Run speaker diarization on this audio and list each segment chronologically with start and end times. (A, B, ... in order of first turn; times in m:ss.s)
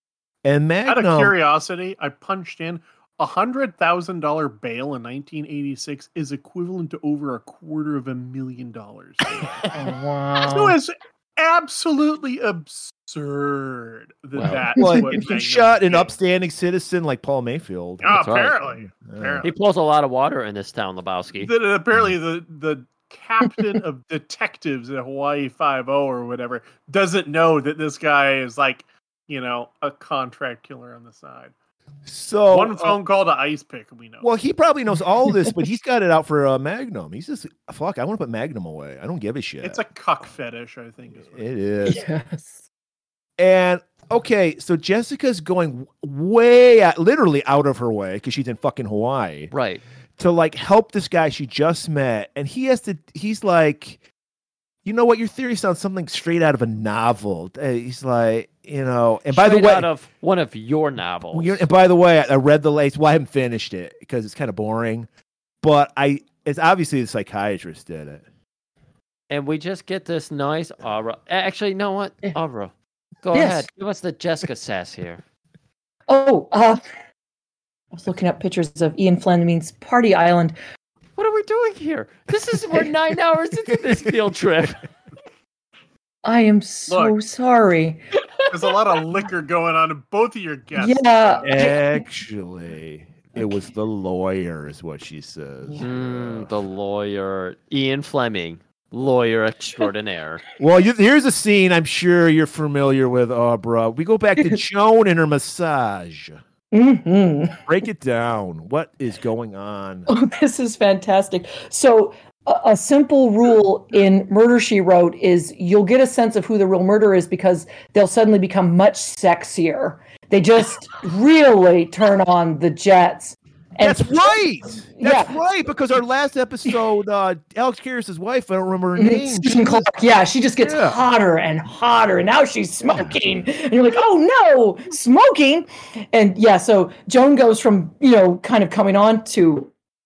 0:00.4-0:01.4 A
0:00.8-0:09.7 B
0:09.6-0:10.8 C
0:10.4-0:16.2 B
0:14.3-0:14.7 D
0:14.8-0:15.2 C
0:14.8-0:19.5 A
0:18.0-0:19.5 B
0:18.0-0:18.6 D
0:19.4-0:21.5 D
0:21.4-0:31.5 B
0:32.0-0:33.0 A
0:32.5-0:34.3 B
0:34.2-0:39.8 A
0:39.6-0:41.5 B
0:41.3-0:42.0 A
0:41.8-0:42.5 C
0:43.4-0:49.5 A
0:49.5-0:49.8 D
0:50.2-0:54.0 A
0:54.8-0:59.9 A
0:59.3-1:01.7 D
1:01.3-1:05.1 A
1:05.6-1:08.2 A
1:09.3-1:15.2 D
1:13.3-1:13.7 C
1:16.1-1:16.8 C
1:17.9-1:20.6 C
1:21.2-1:24.8 D
1:26.2-1:28.2 C
1:26.9-1:27.2 B
1:28.5-1:31.6 B
1:30.8-1:32.0 C
1:31.4-1:36.5 A
1:35.8-1:40.4 D
1:40.6-1:46.4 A
1:46.7-1:47.6 C
1:47.7-1:50.1 A
1:50.1-2:04.4 C
2:03.8-2:09.9 A
2:05.0-2:05.4 C
2:09.0-2:19.7 C
2:10.6-2:11.0 A
2:12.9-2:13.2 A